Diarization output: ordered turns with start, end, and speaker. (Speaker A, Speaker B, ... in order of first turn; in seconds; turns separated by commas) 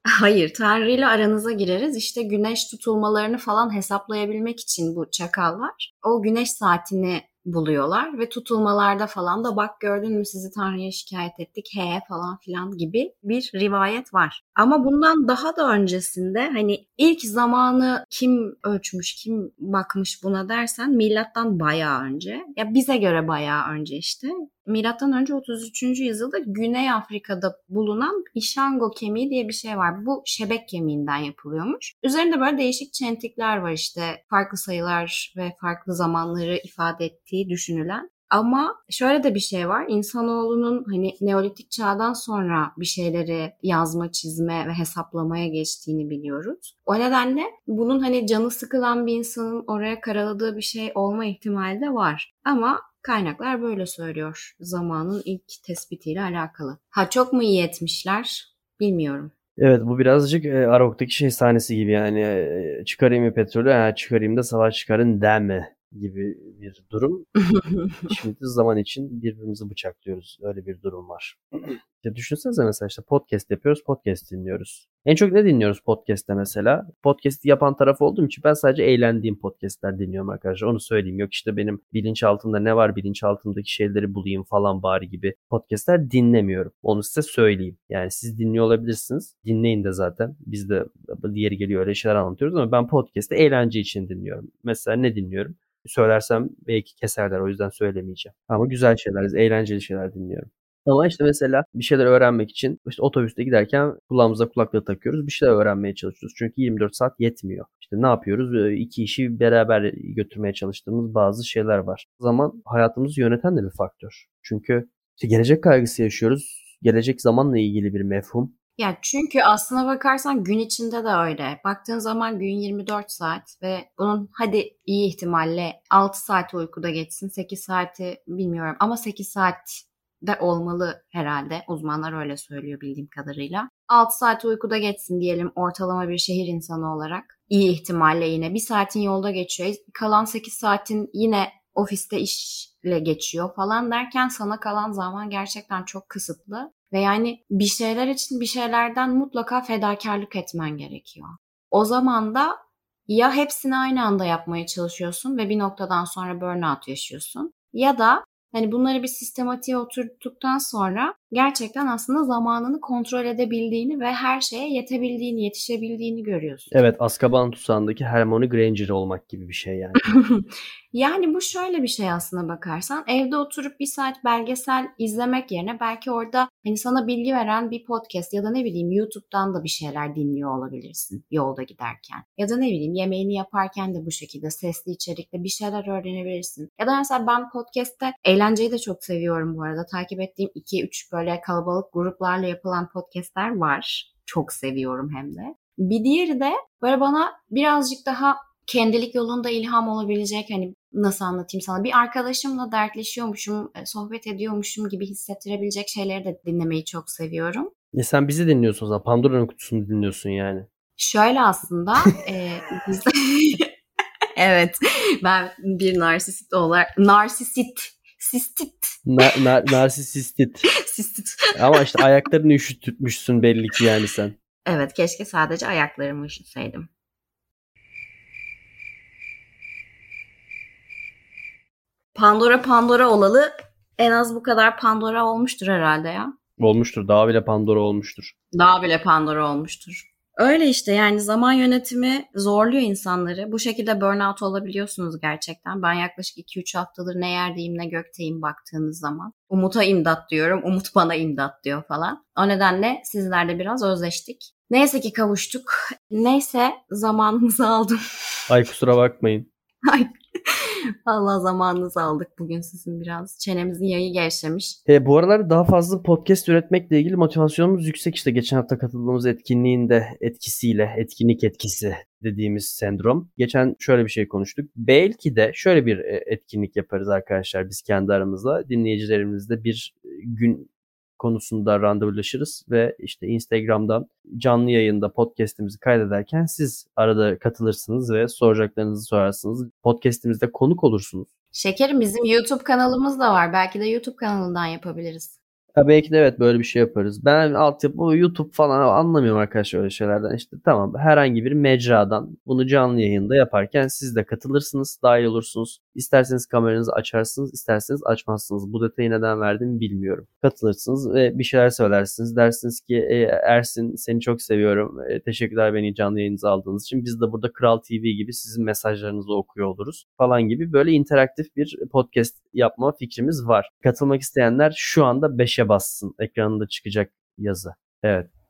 Speaker A: 0.1-59.3, Speaker B: 59.6-67.3, Speaker A: 67.4-68.1, Speaker B: 68.1-118.5, Speaker A: 118.8-152.6, Speaker A: 153.1-166.7, Speaker B: 166.7-170.0, Speaker A: 170.1-207.7, Speaker B: 207.9-210.7, Speaker A: 211.0-213.7, Speaker A: 214.4-219.4, Speaker B: 219.1-220.7, Speaker A: 220.8-221.8, Speaker B: 221.5-224.3, Speaker A: 224.7-226.9, Speaker A: 232.1-236.3, Speaker B: 236.6-238.3, Speaker A: 238.5-258.0, Speaker B: 258.5-259.5, Speaker A: 259.9-264.8, Speaker B: 264.9-291.3, Speaker A: 291.5-295.4, Speaker B: 295.8-328.3